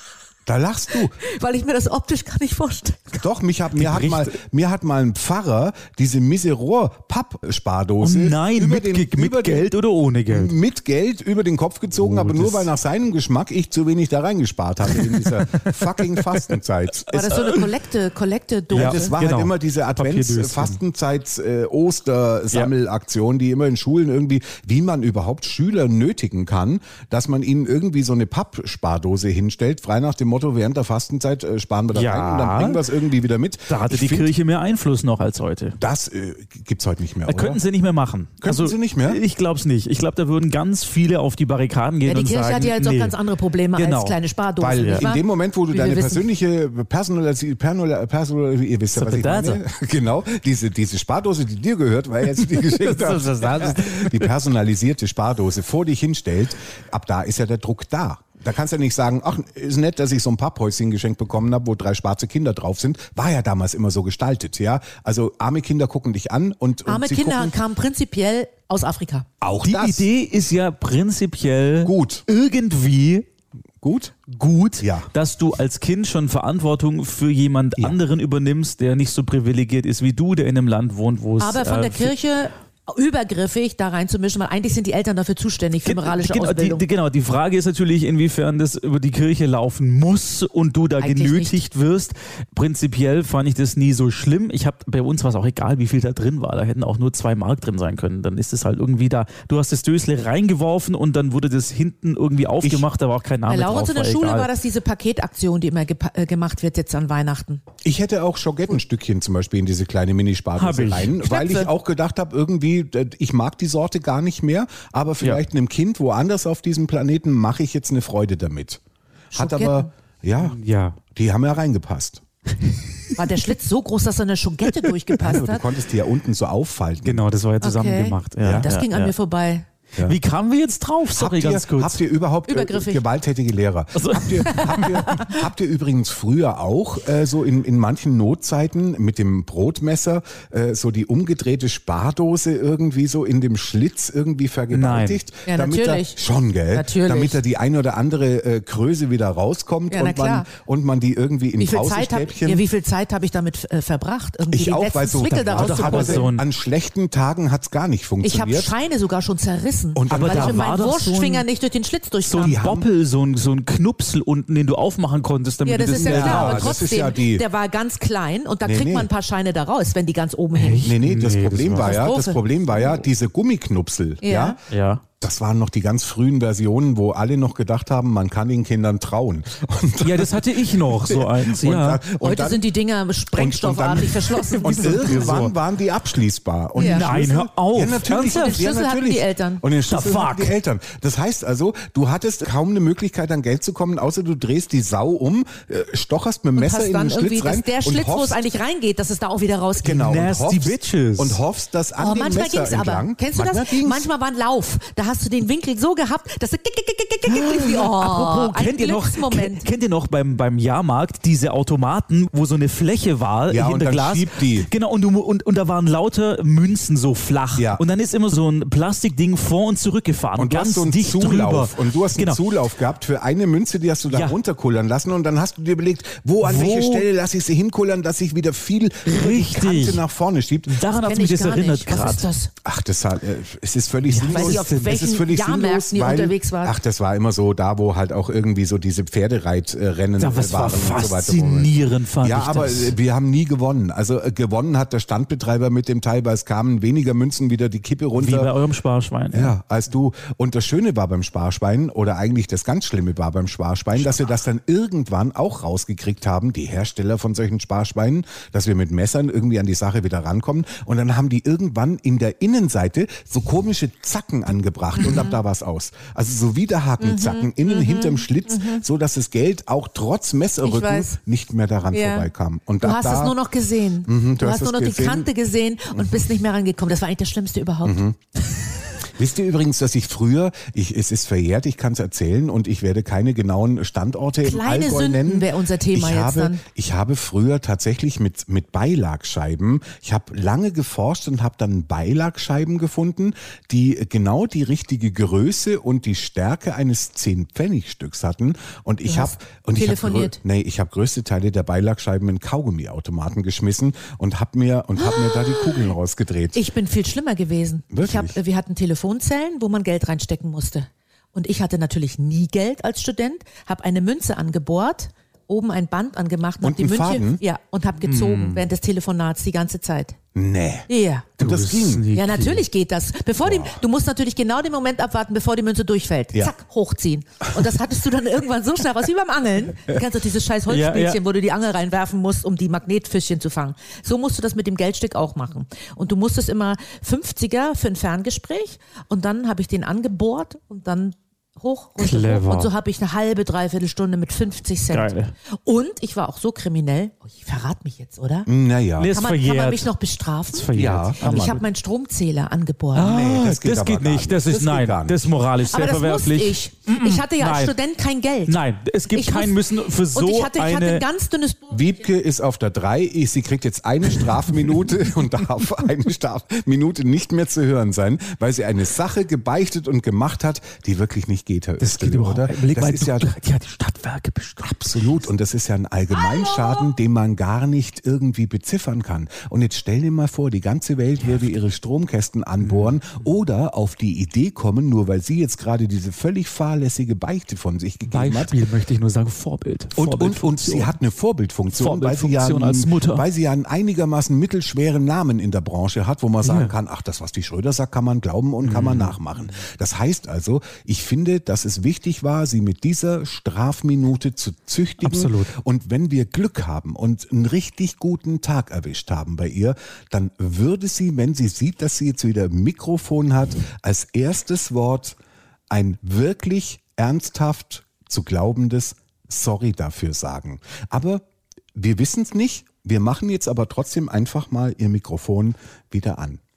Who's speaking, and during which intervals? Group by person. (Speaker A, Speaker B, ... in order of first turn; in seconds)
Speaker A: 0.5-1.2, 3.2-9.7, 10.3-17.4, 18.7-34.3, 35.8-37.6, 38.4-39.2, 44.6-67.5, 69.4-70.1, 71.8-72.2, 73.8-74.1, 74.8-75.1, 107.8-118.8, 119.3-120.6, 121.1-122.2, 125.2-127.2, 128.4-128.7, 131.1-152.6, 154.5-158.7, 159.9-160.7, 162.4-162.9, 166.0-167.4, 168.6-169.1, 170.8-174.6, 175.2-182.6, 183.3-198.4, 199.8-204.1, 213.5-214.7, 217.6-217.8, 220.4-230.8, 232.6-248.5, 249.3-273.4, 274.0-275.3, 275.9-276.2, 277.8-278.2, 279.1-306.6, 307.9-308.4, 316.6-317.4, 320.3-320.9, 321.4-322.1, 323.4-323.8, 348.4-349.1, 350.7-351.6, 353.0-355.3, 361.7-373.3, 374.6-388.5, 389.9-415.2, 415.7-426.4
Speaker B: 1.2-3.2, 17.1-19.1, 42.0-46.2, 66.8-69.3, 81.4-86.8, 91.0-91.6, 103.5-107.6, 111.2-111.7, 119.3-119.9, 123.2-125.6, 127.6-129.7, 132.5-133.0, 134.7-135.3, 145.5-146.2, 146.7-147.4, 149.9-150.5, 151.6-156.3, 158.2-162.6, 165.6-170.9, 171.8-172.4, 174.2-174.6, 182.2-185.4, 186.8-187.0, 188.1-189.6, 196.6-200.1, 202.0-209.6, 230.9-232.5, 234.3-236.8, 265.0-265.4, 267.0-268.8, 270.6-271.2, 271.9-272.3, 272.8-278.0, 284.4-286.6, 299.1-300.4, 305.0-305.9, 306.5-320.2, 320.9-321.3, 322.1-345.1, 345.6-348.5, 349.1-353.1, 355.7-358.6, 359.1-361.9, 376.5-376.8
Speaker C: 3.7-4.3, 8.0-10.6, 11.9-12.7, 14.9-16.4, 17.3-17.6, 18.7-20.8, 31.9-32.8, 33.7-35.8, 37.2-43.2, 43.8-44.2, 44.8-45.0, 48.9-49.6, 52.4-54.3, 69.6-73.2, 74.3-82.1, 85.8-104.5, 110.6-111.2, 120.4-121.0, 122.6-123.2, 127.0-129.1, 130.0-132.0, 133.9-135.2, 144.7-145.2, 155.5-156.4, 160.1-161.4, 162.2-166.8, 170.5-172.1, 174.7-175.0, 180.0-182.0, 184.5-185.5, 186.8-188.6, 189.8-190.5, 199.8-201.4, 207.3-222.4, 224.1-224.3, 226.4-227.0, 229.1-230.0, 230.7-232.3, 234.1-234.9, 240.2-242.9, 248.2-249.5, 318.0-318.6, 321.4-322.6, 330.7-331.2, 342.0-342.7, 344.9-345.3, 349.0-349.9, 350.5-351.6, 352.9-357.8, 358.5-361.0, 371.8-375.3, 382.6-382.9, 388.1-390.9, 391.7-393.2, 396.4-396.7, 398.6-399.1, 405.0-405.5